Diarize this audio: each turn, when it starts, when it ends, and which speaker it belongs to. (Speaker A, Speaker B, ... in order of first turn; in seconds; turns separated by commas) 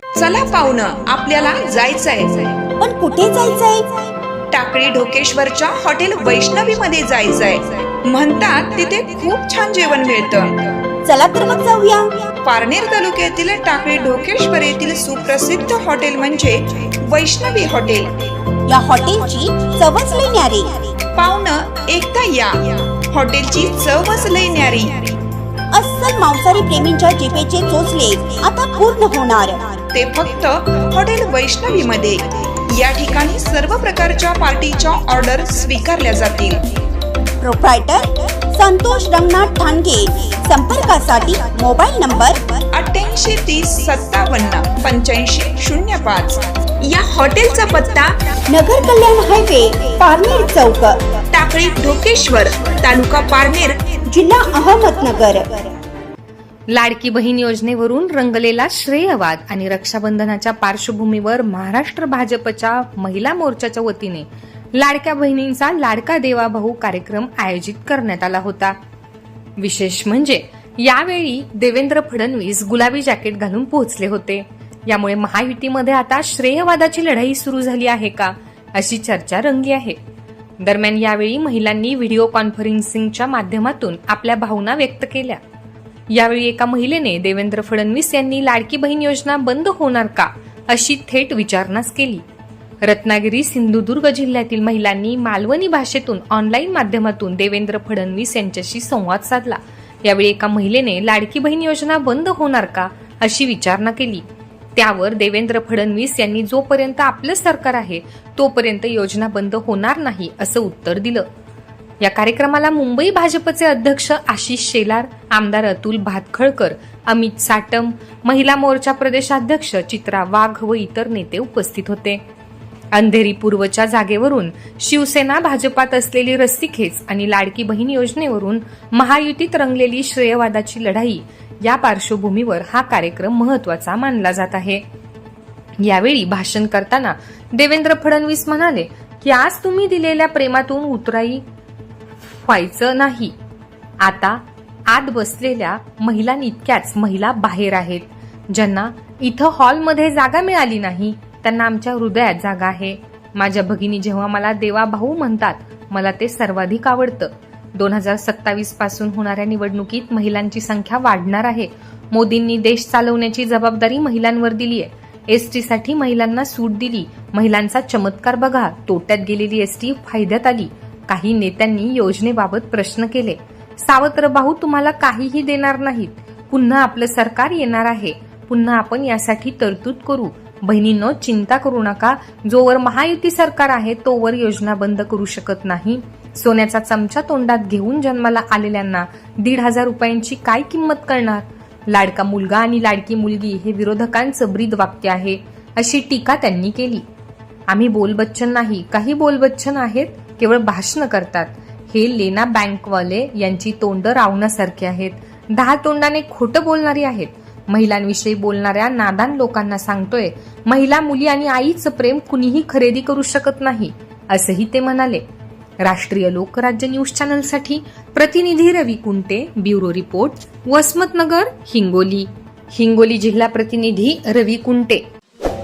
Speaker A: 0.1-2.6, Speaker B: 2.8-4.0, Speaker A: 4.5-10.7, Speaker B: 11.0-12.2, Speaker A: 12.4-18.3, Speaker B: 18.7-20.9, Speaker A: 21.1-25.2, Speaker B: 25.7-29.7, Speaker A: 29.9-36.7, Speaker B: 37.4-42.4, Speaker A: 42.7-48.1, Speaker B: 48.5-51.0, Speaker A: 51.3-54.0, Speaker B: 54.1-55.7, Speaker C: 56.7-68.8, Speaker C: 69.6-80.0, Speaker C: 80.6-85.4, Speaker C: 86.1-92.2, Speaker C: 92.8-104.2, Speaker C: 104.8-111.3, Speaker C: 112.0-122.2, Speaker C: 122.9-134.8, Speaker C: 135.8-141.4, Speaker C: 142.2-143.3, Speaker C: 144.0-197.0, Speaker C: 197.7-215.2, Speaker C: 215.8-225.0